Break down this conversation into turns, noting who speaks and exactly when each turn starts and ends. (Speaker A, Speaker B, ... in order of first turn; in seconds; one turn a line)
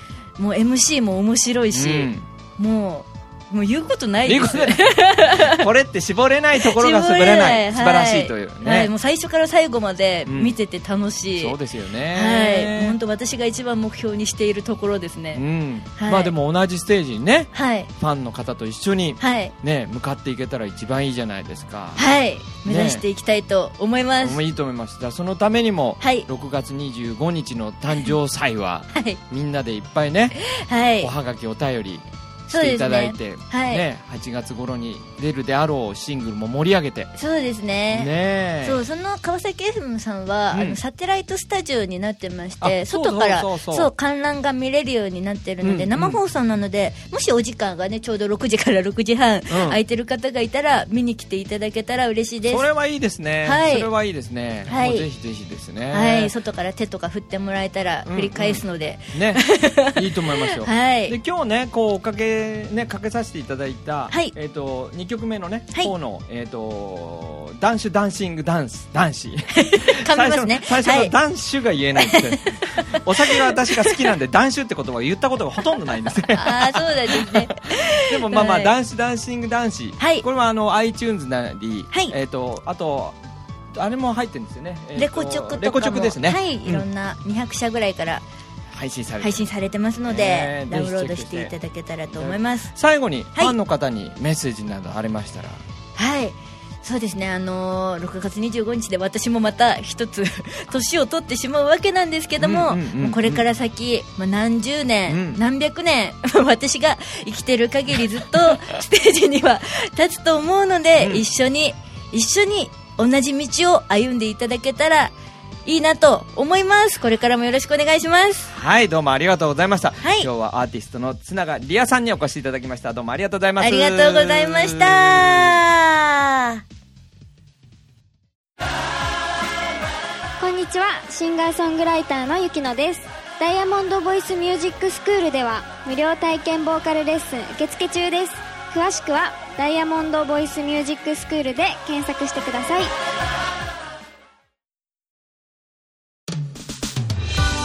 Speaker A: 0.4-5.7
Speaker B: 1.7-2.3
Speaker B: 4.3-8.9
Speaker A: 6.6-11.6
Speaker B: 10.3-10.6
Speaker B: 11.4-13.0
Speaker A: 12.1-15.4
Speaker B: 15.3-22.0
Speaker A: 16.0-16.3
Speaker A: 17.5-17.9
Speaker A: 19.2-19.5
Speaker A: 22.0-24.4
Speaker B: 22.6-23.0
Speaker B: 24.2-30.4
Speaker A: 26.0-26.3
Speaker A: 28.9-29.2
Speaker A: 30.4-31.1
Speaker B: 31.0-37.1
Speaker A: 32.5-33.8
Speaker A: 37.1-38.1
Speaker B: 37.9-38.8
Speaker A: 38.6-52.6
Speaker B: 40.5-40.8
Speaker B: 42.6-43.9
Speaker B: 45.6-46.2
Speaker B: 49.5-49.8
Speaker B: 52.5-56.3
Speaker A: 53.4-53.9
Speaker A: 54.7-55.1
Speaker A: 55.9-61.2
Speaker B: 58.1-83.2
Speaker A: 69.5-71.2
Speaker A: 72.0-74.0
Speaker A: 76.3-78.8
Speaker A: 80.0-80.3
Speaker B: 83.7-86.8
Speaker A: 85.0-88.2
Speaker B: 88.7-89.5
Speaker A: 89.2-92.7
Speaker B: 90.1-91.5
Speaker B: 92.1-95.6
Speaker A: 96.0-115.1
Speaker B: 102.4-103.4
Speaker B: 105.1-105.4
Speaker B: 111.0-111.2
Speaker A: 115.7-118.5
Speaker B: 118.5-125.6
Speaker A: 120.0-120.3
Speaker A: 123.6-126.6
Speaker C: 130.4-142.9